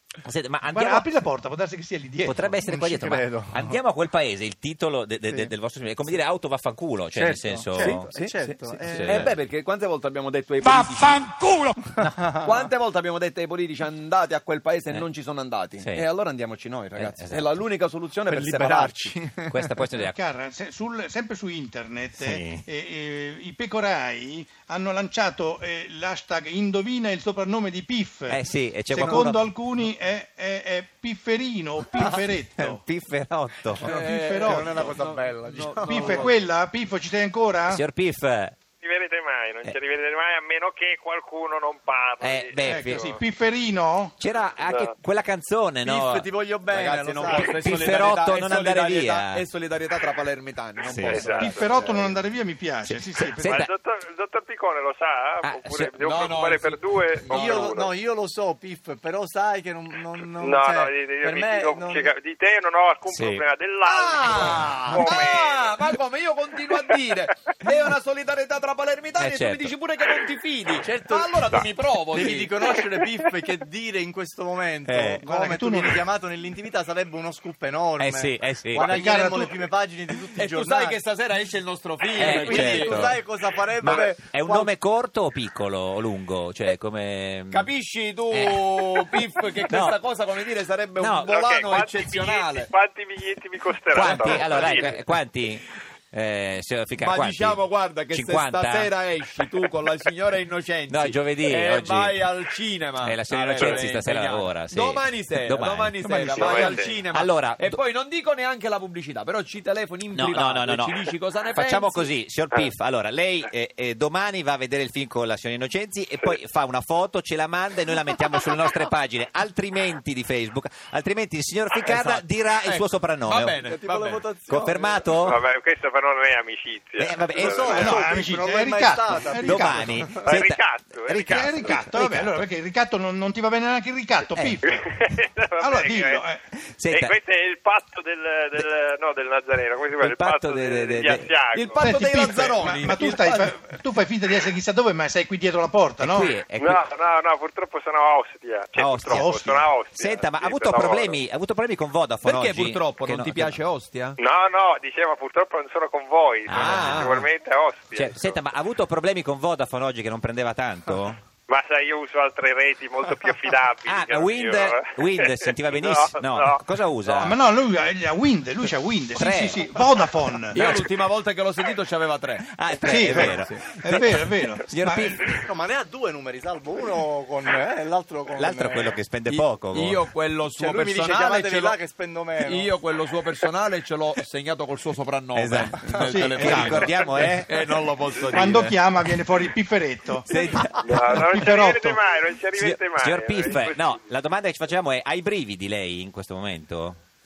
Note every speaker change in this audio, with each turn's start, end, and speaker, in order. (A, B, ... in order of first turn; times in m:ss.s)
0:00.2-0:01.1 A
0:00.7-0:02.6 B
0:02.2-0:08.1 A
0:02.6-0:03.8 C
0:07.2-0:09.2 C
0:07.8-0:08.3 D
0:08.8-0:09.3 A
0:09.0-0:11.3 D
0:10.6-0:11.8 B
0:12.4-0:19.2 D
0:15.8-0:16.0 A
0:17.0-0:17.5 A
0:18.3-0:19.7 C
0:19.5-0:20.2 A
0:20.0-0:32.8 B
0:22.2-0:22.6 A
0:28.3-0:29.4 A
0:32.6-0:33.9 A
0:33.8-0:35.0 B
0:33.9-0:36.4 D
0:33.9-0:36.3 C
0:35.8-0:37.8 B
0:37.7-0:38.6 A
0:38.8-0:43.2 E
0:42.2-0:43.0 A
0:42.6-0:44.2 B
0:44.2-0:46.3 A
0:44.6-0:44.9 E
0:45.8-0:47.7 C
0:46.7-0:52.3 D
0:47.3-0:49.4 A
0:50.9-0:51.2 A
0:51.0-0:51.6 E
0:51.4-0:53.7 B
0:52.8-0:53.7 A
0:53.4-0:57.9 E
0:55.4-0:55.9 A
0:56.0-0:57.7 D
0:57.3-1:02.1 C
1:00.4-1:05.8 E
1:03.1-1:03.4 A
1:03.8-1:12.8 D
1:04.4-1:04.7 A
1:04.5-1:05.2 C
1:09.2-1:09.7 A
1:10.8-1:21.0 C
1:14.8-1:15.2 A
1:15.2-1:16.0 B
1:18.0-1:19.0 A
1:18.8-1:19.6 B
1:20.4-1:23.2 D
1:22.1-1:24.8 C
1:22.2-1:23.2 A
1:23.8-1:27.7 A
1:23.8-1:24.1 D
1:27.5-1:32.7 D
1:28.3-1:29.2 A
1:29.7-1:30.0 A
1:31.0-1:31.4 A
1:31.2-1:34.9 E
1:33.9-1:38.9 A
1:34.0-1:35.0 D
1:37.0-1:52.1 D
1:40.9-1:42.2 A
1:43.0-1:47.8 A
1:46.3-1:47.0 E
1:50.1-2:03.6 A
2:01.8-2:04.3 D
2:03.6-2:05.1 C
2:04.5-2:05.4 A
2:05.2-2:08.0 E
2:07.0-2:08.0 A
2:07.4-2:10.4 C
2:07.6-2:10.1 B
2:09.4-2:12.4 A
2:10.2-2:11.8 E
2:11.3-2:14.8 B
2:14.6-2:16.2 E
2:15.6-2:16.4 B
2:16.7-2:17.1 A
2:16.9-2:21.8 E
2:20.0-2:21.3 A
2:21.5-2:23.6 D
2:21.8-2:26.3 B
2:26.0-2:26.8 A
2:26.6-2:31.2 E
2:28.8-2:29.3 A
2:29.1-2:29.7 B
2:29.9-2:33.6 A
2:32.2-2:34.2 D
2:34.2-2:38.4 E
2:36.5-2:37.3 A
2:36.5-2:37.2 D
2:38.0-2:41.2 A
2:41.5-2:46.6 E
2:43.9-2:47.4 A
2:47.2-2:50.6 B
2:49.1-2:49.6 A
2:50.5-2:52.5 D
2:50.6-2:50.9 A
2:52.5-2:55.4 A
2:52.8-2:55.3 B
2:53.0-2:53.6 D
2:55.4-2:59.0 C
2:58.4-3:00.0 A
2:59.3-3:01.8 D
3:00.6-3:02.8 C
3:02.4-3:08.8 D
3:05.4-3:07.5 A
3:06.0-3:06.9 B
3:08.3-3:10.3 B
3:10.3-3:10.8 A
3:10.3-3:14.0 E
3:11.1-3:12.0 B
3:12.6-3:17.0 A